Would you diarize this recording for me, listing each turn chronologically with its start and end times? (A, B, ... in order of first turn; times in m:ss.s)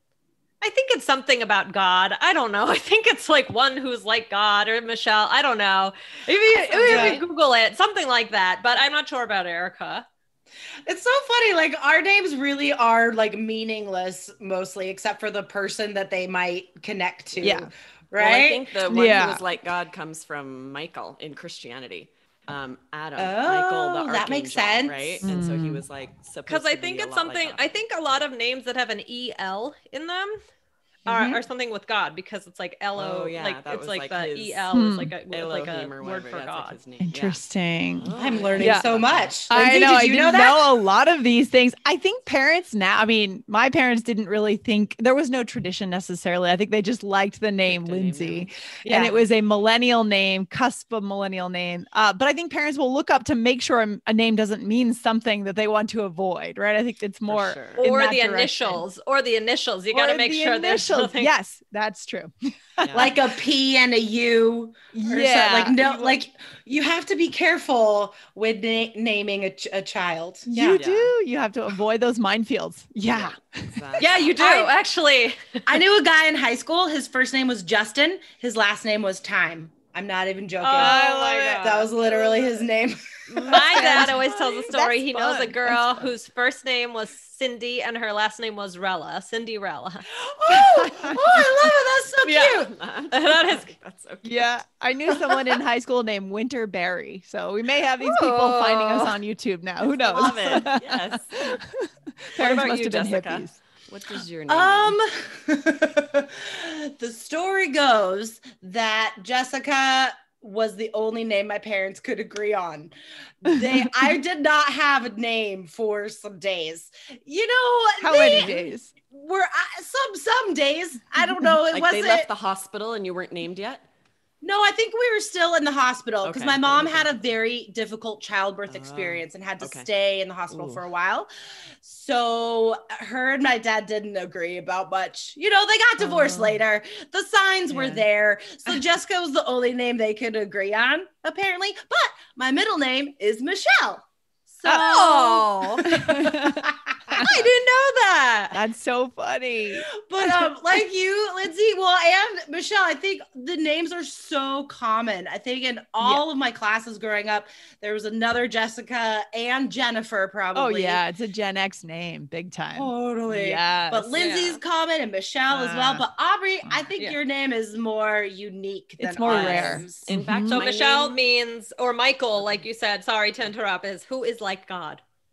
0:00.6-0:10.0 A
0:06.7-0:07.2 B
0:06.7-0:07.2 C
0:10.9-0:18.7 C
0:17.4-0:17.7 B
0:18.2-0:27.8 D
0:18.9-0:19.4 B
0:23.2-0:25.2 C
0:25.2-0:25.8 B
0:26.5-0:30.4 A
0:31.1-0:31.4 C
0:31.1-0:36.8 A
0:33.0-0:34.7 D
0:34.7-0:35.2 B
0:35.3-0:37.4 D
0:37.0-0:38.9 B
0:38.0-0:39.4 D
0:38.2-0:40.7 C
0:39.5-0:58.8 B
0:47.7-0:48.5 D
0:48.8-0:49.2 C
0:57.3-0:57.8 D
0:57.8-1:01.3 A
0:59.9-1:03.2 B
1:02.8-1:03.1 D
1:02.9-1:10.8 C
1:04.9-1:06.2 B
1:10.5-1:14.0 B
1:10.7-1:11.1 D
1:13.1-1:14.3 D
1:14.0-1:15.6 A
1:14.4-1:14.7 C
1:15.7-1:21.0 C
1:20.6-1:22.5 A
1:20.8-1:21.8 B
1:21.6-1:24.2 C
1:23.3-1:30.1 A
1:23.4-1:26.1 B
1:30.2-1:32.7 C
1:30.5-1:31.7 B
1:32.2-1:32.5 B
1:32.3-1:34.5 D
1:33.1-1:33.7 A
1:34.2-1:43.6 B
1:38.0-1:39.2 A
1:39.8-1:41.6 D
1:42.4-1:45.0 D
1:44.5-2:02.3 C
1:58.0-1:58.9 B
2:01.7-2:03.8 D
2:04.4-2:11.3 C
2:06.2-2:07.1 D
2:08.7-2:09.9 D
2:10.5-2:10.8 D
2:11.8-2:27.4 C
2:16.0-2:16.6 B
2:17.7-2:18.0 B
2:24.6-2:25.3 B
2:24.8-2:25.8 A
2:25.8-2:27.3 B
2:27.2-2:28.6 A
2:28.5-2:30.5 B
2:30.0-2:41.0 C
2:40.6-2:44.4 B
2:42.7-2:50.0 C
2:44.2-2:44.6 A
2:45.5-2:46.1 B
2:46.6-2:46.9 B
2:49.0-2:50.7 B
2:49.2-2:51.2 D
2:50.5-2:55.0 A